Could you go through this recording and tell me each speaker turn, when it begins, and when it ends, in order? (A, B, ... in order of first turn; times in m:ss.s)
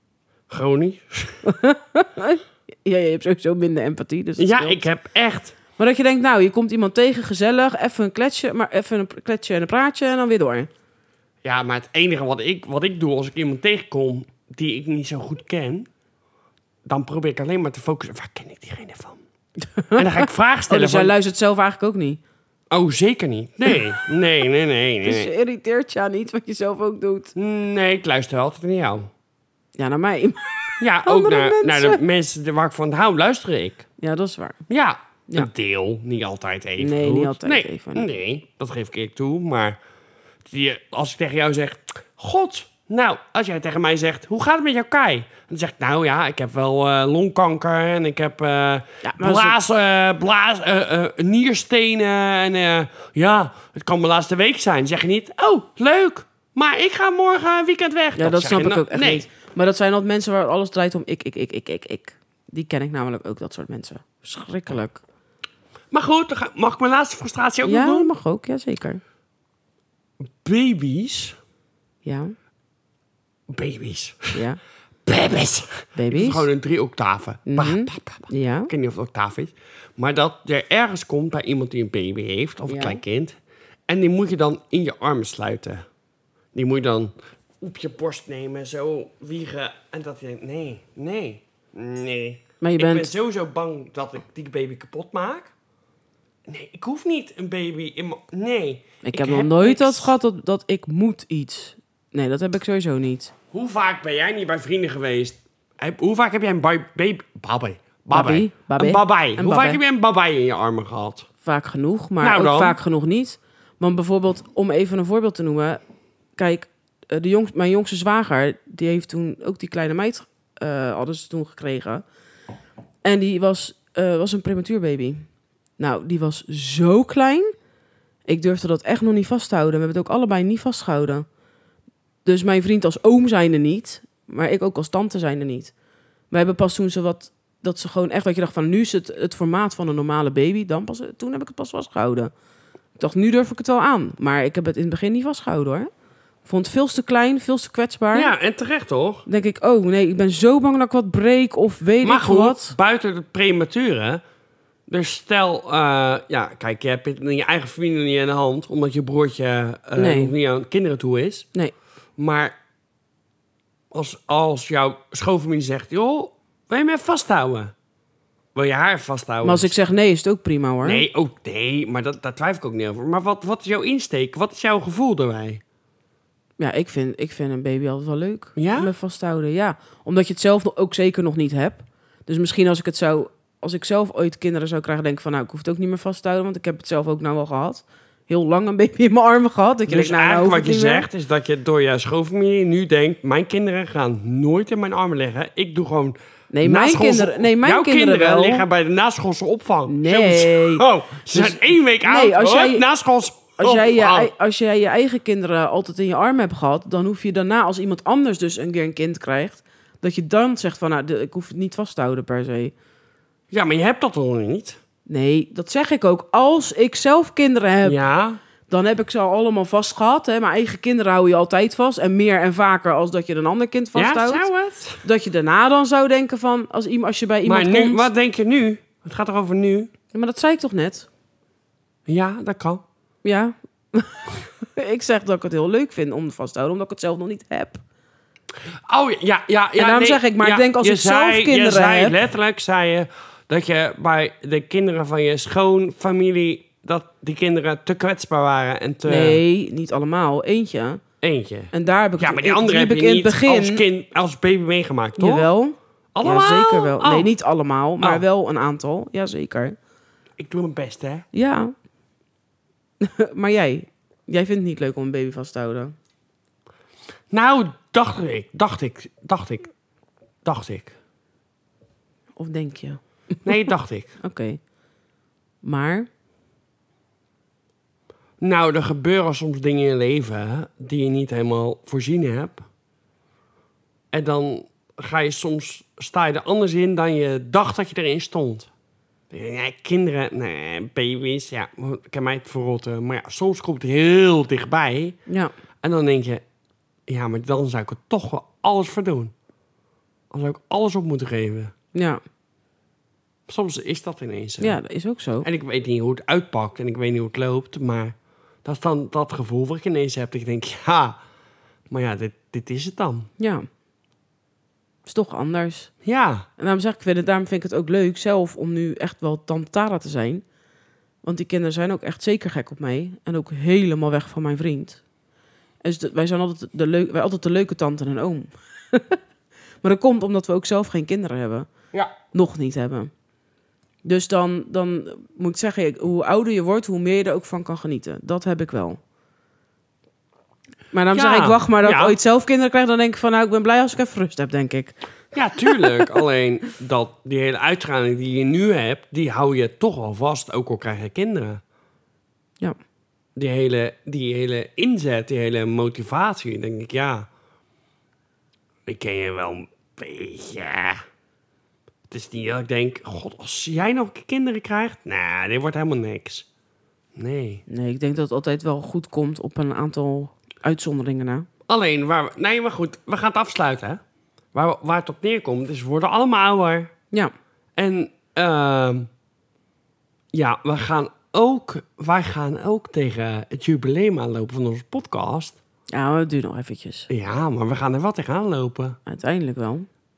0:00.5-0:01.4 A
0:01.4-0:04.9 B
0:04.4-0:05.6 A
0:05.8-0:10.7 B
0:11.4-0:15.9 A
0:16.9-0:19.2 A
0:19.7-0:22.2 B
0:20.0-0:21.1 A
0:22.7-0:25.3 A
0:25.0-0:27.3 B
0:27.4-0:29.1 A
0:29.8-0:32.0 B
0:30.8-0:33.8 A
0:34.0-0:34.6 B
0:34.7-0:39.8 A
0:36.8-0:38.1 B
0:40.5-0:59.3 A
0:49.0-0:49.6 B
0:58.2-1:05.0 B
1:05.9-1:08.1 A
1:07.6-1:09.0 B
1:10.3-1:11.4 A
1:12.0-1:12.3 B
1:13.5-1:14.4 A
1:14.3-1:14.6 B
1:15.1-1:23.4 A
1:16.0-1:16.5 B
1:17.5-1:18.7 B
1:22.7-1:23.0 B
1:23.9-1:25.8 A
1:26.5-1:35.5 A
1:32.6-1:33.1 B
1:36.5-1:40.2 A
1:39.0-1:43.3 B
1:43.5-1:51.3 A
1:48.1-1:49.8 B
1:51.4-1:55.8 B
1:52.2-1:52.8 A
1:56.4-2:02.0 B
2:03.0-2:05.3 B
2:05.8-2:07.5 B
2:08.3-2:11.2 B
2:12.2-2:15.7 B
2:16.3-2:22.3 B
2:23.0-2:25.9 B
2:26.4-2:28.3 B
2:28.1-2:29.3 A
2:29.3-2:32.8 B
2:32.0-2:34.2 A
2:34.9-2:41.5 A
2:40.0-2:40.3 B
2:42.2-2:42.6 A
2:43.9-2:47.7 A
2:48.6-2:49.7 A
2:49.4-2:51.0 B
2:50.8-2:55.6 A
2:56.6-3:11.1 B
2:58.6-2:58.9 A
3:09.9-3:24.3 A
3:16.5-3:18.7 B
3:19.9-3:22.8 B
3:23.6-3:32.7 B
3:33.5-3:34.8 A
3:35.1-3:38.0 B
3:37.8-3:38.4 A
3:38.7-3:44.5 B
3:44.0-3:45.0 A
3:45.0-3:48.1 B
3:47.4-3:49.9 A
3:50.1-3:51.1 B
3:52.1-3:52.8 A
3:53.2-3:57.8 B
3:58.9-4:09.4 A
3:59.8-4:02.2 B
4:09.1-4:11.0 B
4:11.2-4:15.5 A
4:11.7-4:13.8 B
4:15.2-4:19.8 B
4:16.1-4:17.3 A
4:18.0-4:18.2 A
4:20.4-4:21.3 A
4:21.3-4:21.7 B
4:23.0-4:26.0 B
4:27.3-4:29.7 A
4:30.4-4:31.0 A
4:32.4-4:33.7 B
4:33.4-4:34.1 A
4:34.2-4:34.6 B
4:35.6-4:36.1 B
4:38.4-4:42.6 A
4:44.1-4:48.7 A
4:49.3-4:55.2 A
4:55.8-4:56.4 A
4:57.1-4:59.3 A
5:00.3-5:01.7 A
5:01.9-5:02.2 B
5:03.5-5:04.8 A
5:04.6-5:05.5 B
5:05.4-5:11.2 A
5:11.9-5:13.3 A
5:13.4-5:13.7 B
5:15.1-5:15.9 B
5:16.0-5:16.5 A
5:16.6-5:20.4 B
5:21.2-5:25.0 B
5:25.8-5:29.2 B
5:29.8-5:31.7 B
5:32.3-5:33.1 B
5:34.0-5:39.0 B
5:40.9-5:45.0 B
5:41.1-5:42.2 A
5:45.3-5:51.6 A
5:45.7-5:46.1 B
5:53.4-5:57.3 A
5:58.9-6:01.0 A
6:02.1-6:06.5 A
6:07.2-6:07.6 A
6:07.7-6:11.5 B
6:11.7-6:14.0 A
6:14.5-6:16.9 A
6:17.8-6:19.1 A
6:20.3-6:25.6 A
6:25.9-6:27.1 B
6:27.1-6:29.0 A
6:29.1-6:29.9 B